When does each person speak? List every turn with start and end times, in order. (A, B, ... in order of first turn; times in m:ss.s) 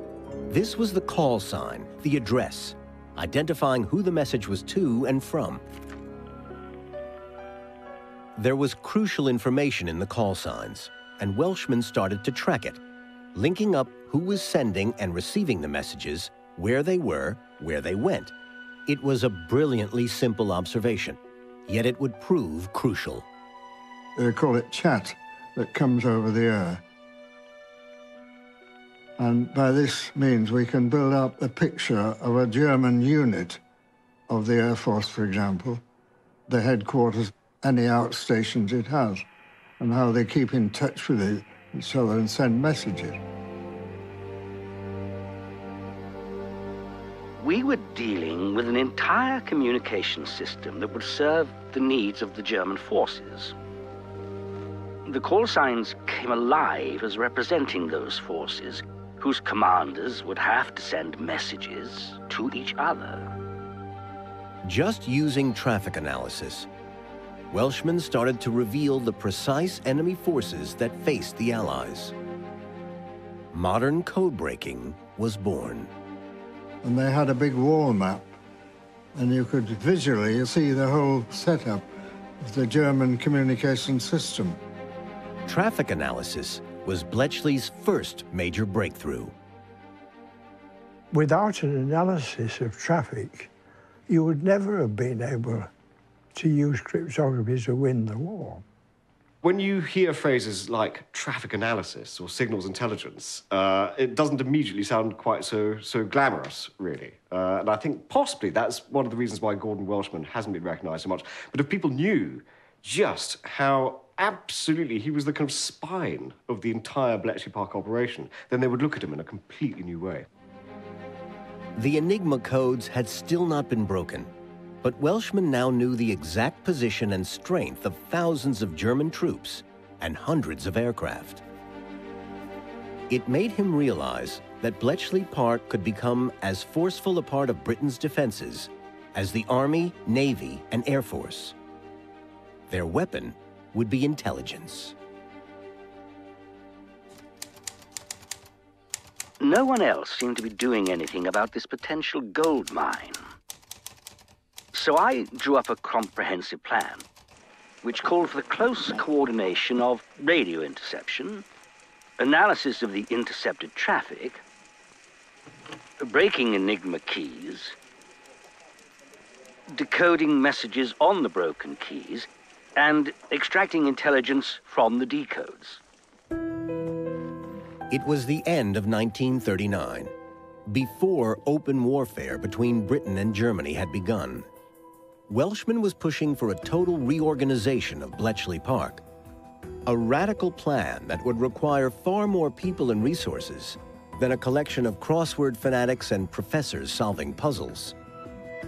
0:00.5-0:05.6 A
0:08.4-0:12.8 A
0:13.4-0:18.3 A
0:18.9-0:23.3 A
0:24.2-0:26.8 B
0:29.2-0:33.6 B
0:34.3-0:35.8 B
0:36.5-0:39.2 B
0:39.8-0:43.2 B
0:47.4-0:53.5 C
0:55.1-1:03.3 C
1:04.6-1:06.7 A
1:07.5-1:12.1 A
1:13.5-1:15.9 A
1:16.8-1:18.3 B
1:19.2-1:21.9 B
1:22.4-1:24.6 B
1:25.5-1:29.3 A
1:31.1-1:33.5 D
1:34.1-1:35.7 D
1:36.4-1:38.6 D
1:39.4-2:00.3 E
2:01.8-2:04.3 A
2:04.8-2:11.4 A
2:13.1-2:21.6 A
2:22.7-2:24.9 A
2:29.4-2:33.2 C
2:34.7-2:37.0 C
2:37.8-2:41.4 C
2:42.2-2:44.4 C
2:46.0-2:47.8 C
2:49.7-2:55.8 C
2:57.9-3:00.1 A
3:00.7-3:04.5 A
3:05.3-3:09.0 A
3:09.9-3:18.0 A